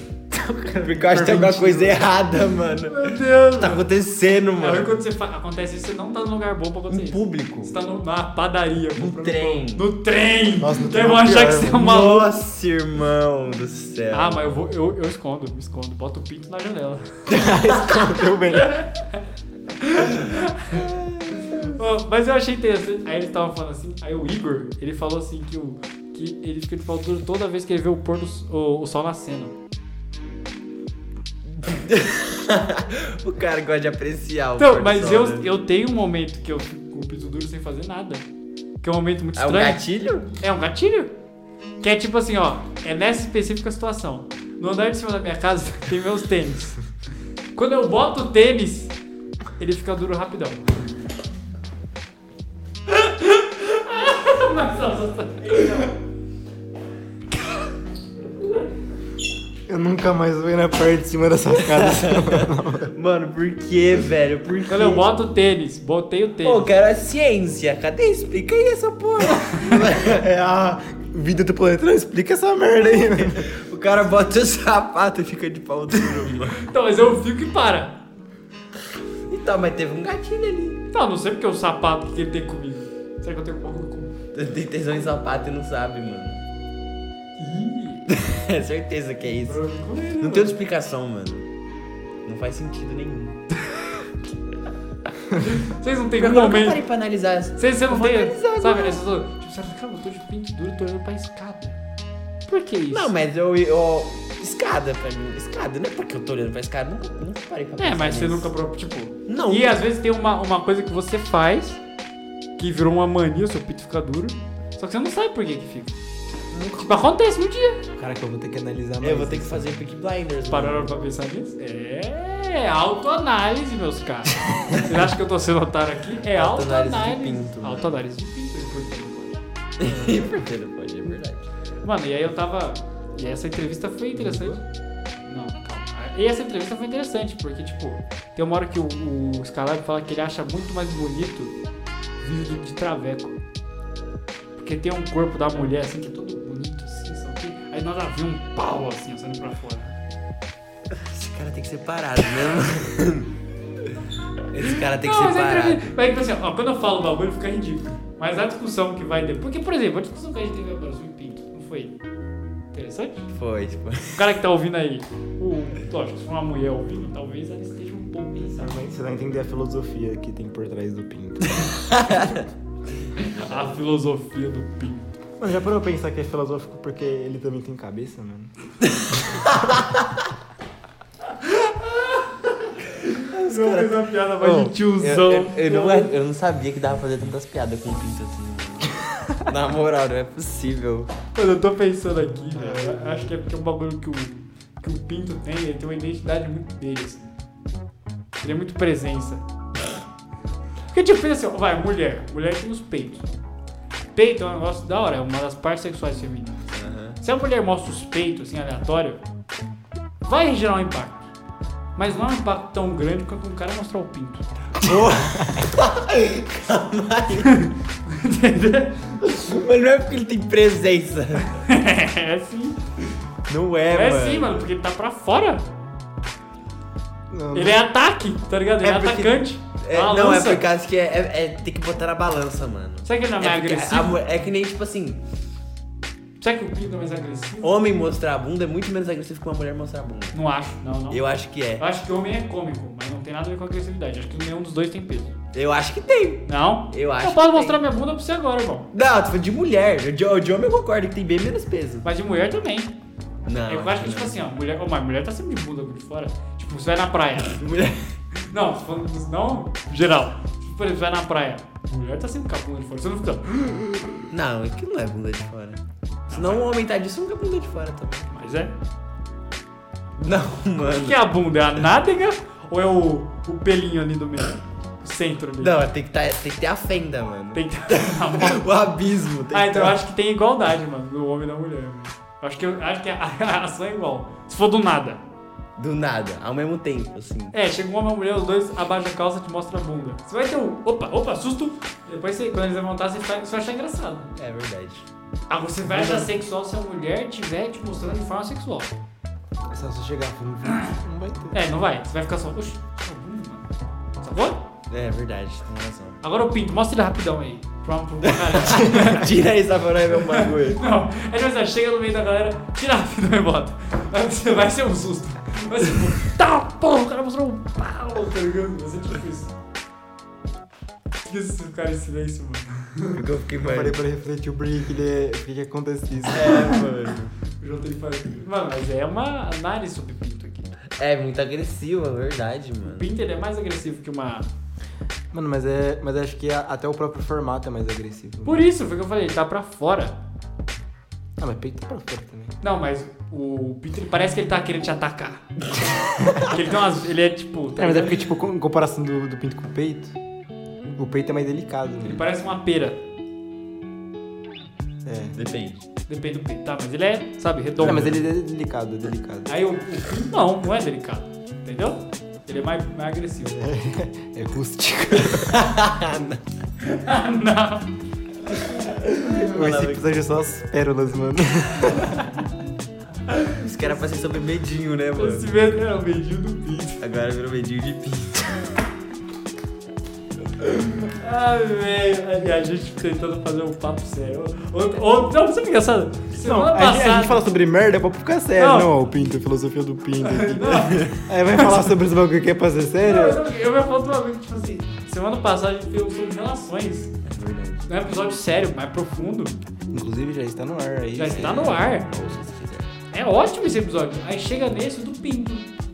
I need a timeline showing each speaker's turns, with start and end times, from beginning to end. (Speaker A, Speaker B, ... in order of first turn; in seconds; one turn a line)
Speaker A: 0.3-2.0
Speaker B: 0.8-4.9
Speaker C: 2.9-3.9
Speaker C: 4.6-12.3
Speaker B: 6.9-7.7
Speaker B: 8.9-9.9
Speaker A: 10.6-11.8
Speaker B: 11.7-14.5
Speaker C: 14.1-17.4
Speaker A: 17.3-18.8
Speaker C: 18.5-19.2
Speaker C: 19.8-20.9
Speaker C: 21.4-29.6
Speaker B: 31.5-35.4
Speaker C: 34.6-38.2
Speaker C: 38.8-39.8
Speaker B: 39.4-40.3
Speaker C: 40.4-41.1
Speaker C: 41.8-46.8
Speaker C: 47.5-48.9
Speaker C: 49.6-50.7
Speaker C: 52.9-55.9
Speaker A: 59.7-62.9
Speaker B: 61.6-65.0
Speaker C: 64.7-66.7
Speaker B: 66.4-70.2
Speaker A: 69.7-73.5
Speaker B: 73.3-76.7
Speaker C: 76.6-78.0
Speaker B: 79.3-80.8
Speaker C: 80.9-84.1
Speaker B: 84.3-86.4
Speaker C: 87.4-88.0
Speaker B: 88.1-89.6
Speaker C: 89.4-90.5
Speaker B: 90.2-91.5
Speaker B: 92.2-93.4
Speaker C: 95.3-96.8
Speaker B: 96.2-99.0
Speaker C: 97.6-101.8
Speaker C: 102.5-103.1
Speaker B: 102.9-108.5
Speaker C: 107.8-111.8
Speaker B: 109.3-109.8
Speaker C: 112.6-116.0
Speaker B: 116.5-116.9
Speaker C: 116.7-117.8
Speaker A: 118.0-119.8
Speaker B: 119.0-120.9
Speaker C: 120.5-129.4
Speaker B: 126.3-127.9
Speaker B: 129.8-131.5
Speaker A: 129.9-130.3
Speaker C: 131.8-134.6
Speaker C: 135.2-141.6
Speaker C: 142.2-143.4
Speaker C: 144.6-150.0
Speaker B: 150.9-153.3
Speaker B: 154.5-155.9
Speaker C: 154.7-162.0
Speaker C: 162.7-163.3
Speaker B: 163.3-164.2
Speaker C: 164.1-168.8
Speaker A: 168.6-171.7
Speaker B: 171.6-172.4
Speaker C: 173.2-175.1
Speaker A: 175.4-178.5
Speaker B: 178.9-180.0
Speaker C: 181.4-186.1
Speaker B: 183.2-191.1
Speaker C: 191.3-197.3
Speaker A: 192.6-193.1
Speaker C: 198.4-199.4
Speaker C: 200.9-203.2
Speaker C: 204.1-206.6
Speaker B: 206.7-207.2
Speaker C: 207.2-209.2
Speaker C: 210.2-211.2
Speaker C: 211.9-214.5
Speaker A: 214.8-215.8
Speaker B: 214.8-217.6
Speaker C: 217.4-219.2
Speaker B: 219.2-221.5
Speaker C: 221.5-222.8
Speaker B: 223.5-224.6
Speaker C: 223.9-225.6
Speaker A: 227.3-227.8
Speaker C: 227.5-230.6
Speaker B: 228.8-235.2
Speaker C: 233.0-234.2
Speaker C: 236.4-237.7
Speaker B: 237.6-240.3
Speaker C: 240.3-241.2
Speaker B: 241.1-241.8
Speaker C: 241.8-245.3
Speaker B: 245.5-247.8
Speaker C: 246.4-248.9
Speaker B: 248.9-252.0
Speaker C: 252.0-252.9
Speaker B: 253.4-254.4
Speaker C: 253.7-257.6
Speaker B: 257.5-258.1
Speaker C: 258.5-264.0
Speaker B: 264.3-268.3
Speaker C: 266.3-266.7
Speaker C: 268.3-268.7
Speaker B: 270.2-271.2
Speaker C: 270.9-275.7
Speaker B: 275.6-280.0
Speaker C: 277.5-278.7
Speaker C: 279.5-285.2
Speaker B: 285.8-287.5
Speaker C: 287.5-294.3
Speaker B: 294.4-295.0
Speaker C: 295.5-298.9
Speaker B: 295.9-296.3
Speaker A: 299.6-301.6
Speaker C: 301.5-303.7
Speaker C: 304.2-304.6
Speaker B: 304.9-306.2
Speaker C: 306.2-309.3
Speaker B: 308.3-310.8
Speaker C: 310.2-319.5
Speaker C: 321.2-323.2
Speaker B: 323.1-324.0
Speaker A: 323.6-326.9
Speaker B: 326.2-327.3
Speaker C: 327.6-330.8
Speaker B: 331.0-333.1
Speaker C: 332.9-334.5
Speaker A: 335.3-338.6
Speaker C: 338.4-340.1
Speaker A: 341.4-342.6
Speaker C: 342.6-345.5
Speaker C: 346.3-348.3
Speaker A: 347.8-350.1
Speaker A: 350.9-352.2
Speaker C: 352.0-353.0
Speaker A: 355.0-355.4
Speaker B: 355.3-355.8
Speaker C: 356.1-358.2
Speaker A: 357.8-359.6
Speaker B: 357.8-358.1
Speaker C: 359.4-363.6
Speaker A: 363.4-365.7
Speaker B: 365.3-366.4
Speaker C: 366.8-367.9
Speaker C: 368.5-369.2
Speaker B: 369.0-370.1
Speaker A: 369.2-372.3
Speaker B: 373.4-375.4
Speaker C: 375.1-377.0
Speaker B: 377.0-378.7
Speaker C: 380.9-387.4
Speaker A: 386.3-393.4
Speaker C: 388.6-388.9
Speaker C: 390.2-391.9
Speaker C: 393.0-397.1
Speaker B: 397.3-397.8
Speaker C: 397.9-399.6
Speaker A: 399.9-401.8
Speaker C: 401.1-402.1
Speaker B: 401.3-402.9
Speaker C: 403.1-405.7